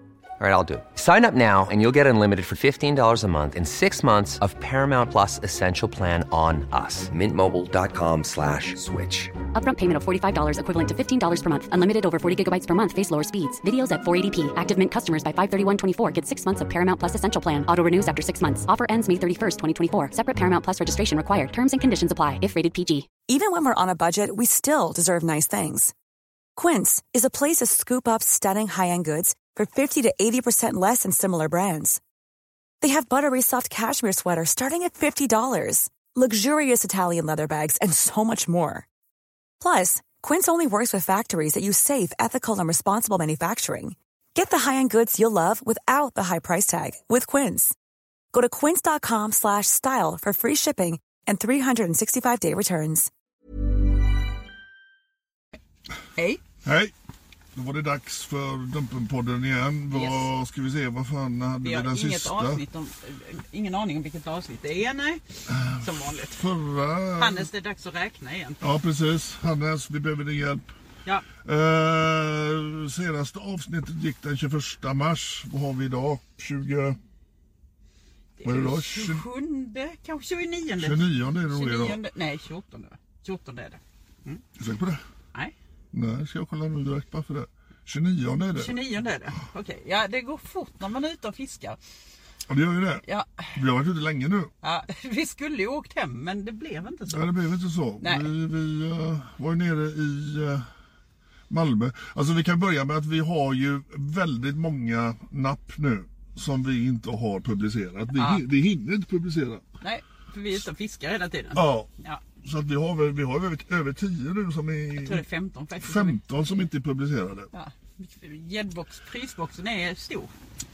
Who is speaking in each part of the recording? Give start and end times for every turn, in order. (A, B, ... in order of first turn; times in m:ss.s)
0:00.4-0:09.3 A
0:09.5-0:23.1 B
0:23.2-0:25.9 C
0:26.6-0:32.0 C
0:32.8-0:38.8 C
0:39.6-0:47.7 C
0:48.3-0:53.1 C
0:56.2-0:56.4 D
0:56.6-0:56.9 E
0:57.5-1:02.6 E
0:59.9-1:00.3 D
1:01.6-1:06.4 D
1:05.5-1:07.5 E
1:07.2-1:08.6 D
1:08.6-1:10.7 E
1:11.4-1:17.0 E
1:18.4-1:24.4 D
1:18.4-1:19.2 E
1:20.8-1:22.0 E
1:24.6-1:25.0 E
1:25.9-1:28.7 E
1:28.5-1:31.8 D
1:32.5-1:34.5 E
1:33.0-1:33.5 D
1:34.6-1:37.3 D
1:37.1-1:40.6 E
1:38.0-1:38.3 D
1:41.5-1:49.6 E
1:48.2-1:48.4 D
1:49.8-1:52.2 D
1:51.5-1:51.9 E
1:52.4-1:55.2 E
1:55.0-1:56.6 D
1:55.8-1:57.5 E
1:57.5-2:00.3 D